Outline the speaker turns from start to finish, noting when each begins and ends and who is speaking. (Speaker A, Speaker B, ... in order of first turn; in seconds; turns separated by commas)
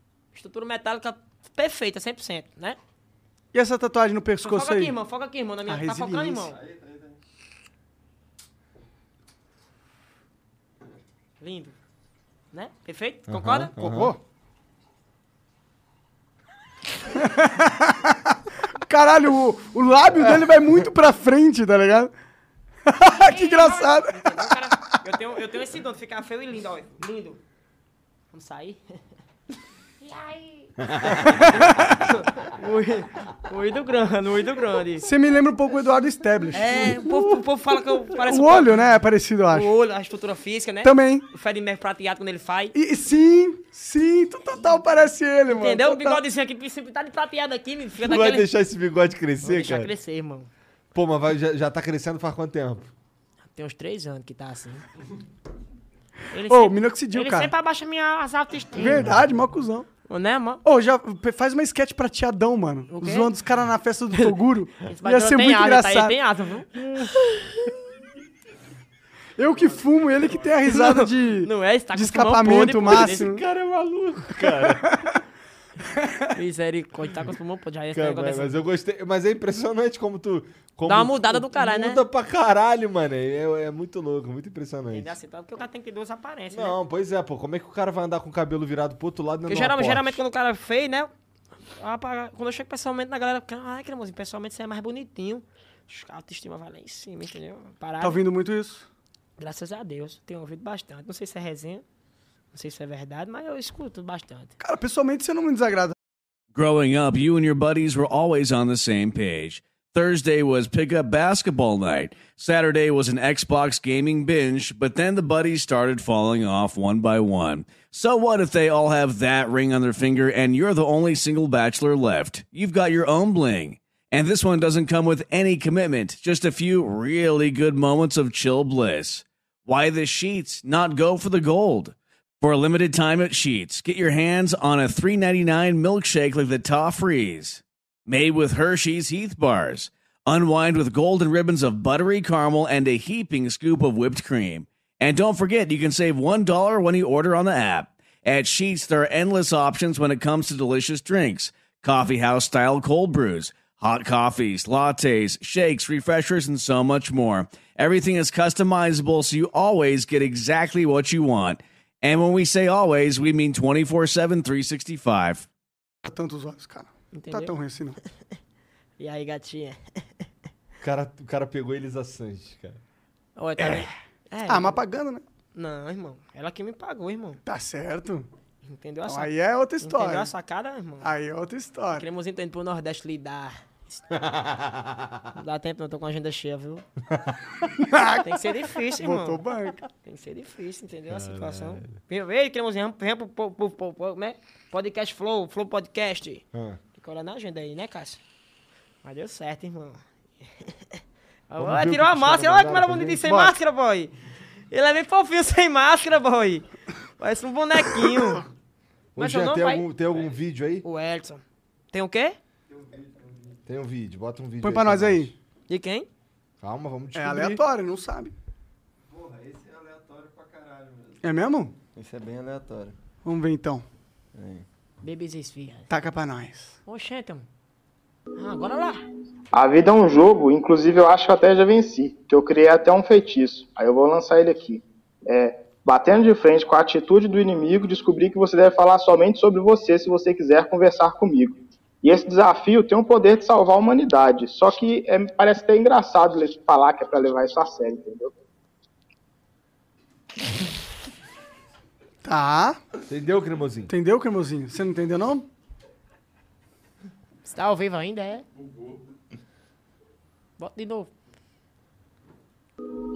Speaker A: 0.3-2.8, Speaker B: 3.5-4.9, Speaker A: 4.4-6.6, Speaker B: 5.7-6.5, Speaker C: 6.5-7.2, Speaker A: 11.4-11.8, Speaker A: 12.5-13.7, Speaker D: 13.3-14.2, Speaker B: 13.8-14.2, Speaker B: 17.2-18.2, Speaker B: 18.9-22.1, Speaker B: 22.9-24.7, Speaker A: 23.2-27.4, Speaker A: 28.3-28.8, Speaker A: 30.0-35.1, Speaker D: 30.9-31.3, Speaker B: 31.3-31.9, Speaker B: 35.0-37.3, Speaker A: 36.5-38.8, Speaker B: 38.1-39.7, Speaker A: 39.5-42.8, Speaker B: 40.8-41.2, Speaker B: 42.7-46.2, Speaker A: 45.5-48.5, Speaker D: 48.0-49.9, Speaker A: 49.4-50.5, Speaker D: 50.9-52.9, Speaker A: 53.5-54.8, Speaker A: 56.3-59.1, Speaker B: 56.5-57.5, Speaker B: 58.8-59.9, Speaker A: 60.1-60.6, Speaker B: 60.6-66.2, Speaker A: 62.9-63.3, Speaker A: 64.1-66.7, Speaker B: 69.4-73.4, Speaker A: 70.7-73.4, Speaker D: 72.8-74.8, Speaker B: 74.5-74.9, Speaker A: 76.3-78.6, Speaker D: 77.9-85.1, Speaker A: 80.9-82.0, Speaker A: 84.9-86.8, Speaker D: 86.5-90.2, Speaker A: 89.5-91.1, Speaker A: 91.8-98.2, Speaker B: 98.0-98.9, Speaker A: 99.4-101.8, Speaker A: 102.5-104.5, Speaker B: 104.6-106.0, Speaker E: 106.5-165.5, Speaker B: 166.1-168.0, Speaker A: 167.1-167.5, Speaker A: 169.0-170.3, Speaker D: 170.8-172.8, Speaker A: 173.4-174.8, Speaker B: 173.6-173.9, Speaker B: 174.5-175.2, Speaker A: 175.6-177.4, Speaker B: 177.5-178.3, Speaker A: 178.7-181.1, Speaker B: 179.1-180.3, Speaker B: 181.0-182.1, Speaker A: 181.9-184.2, Speaker D: 184.2-185.2, Speaker A: 185.3-186.8, Speaker B: 187.8-189.8, Speaker A: 188.2-189.4, Speaker A: 190.0-196.4, Speaker D: 191.1-191.9, Speaker D: 196.5-196.8, Speaker A: 197.0-198.2, Speaker A: 199.0-204.1, Speaker D: 201.6-203.4, Speaker B: 203.3-203.5, Speaker A: 204.7-206.7, Speaker A: 207.2-208.5, Speaker D: 209.2-210.8, Speaker A: 209.2-209.9, Speaker A: 210.8-212.4, Speaker C: 212.7-213.6, Speaker D: 213.7-215.3, Speaker B: 214.6-215.3, Speaker A: 215.7-216.1, Speaker D: 216.6-217.6, Speaker B: 217.2-218.3, Speaker C: 219.1-221.2, Speaker B: 221.2-221.8, Speaker C: 222.0-223.0, Speaker B: 223.2-223.9, Speaker C: 224.3-224.7, Speaker A: 225.0-225.9, Speaker B: 225.9-226.8, Speaker A: 226.9-227.5, Speaker A: 228.4-229.0, Speaker F: 229.5-248.3, Speaker B: 252.2-252.8, Speaker D: 253.1-253.9, Speaker B: 253.9-255.5, Speaker A: 257.4-258.5, Speaker A: 260.6-261.1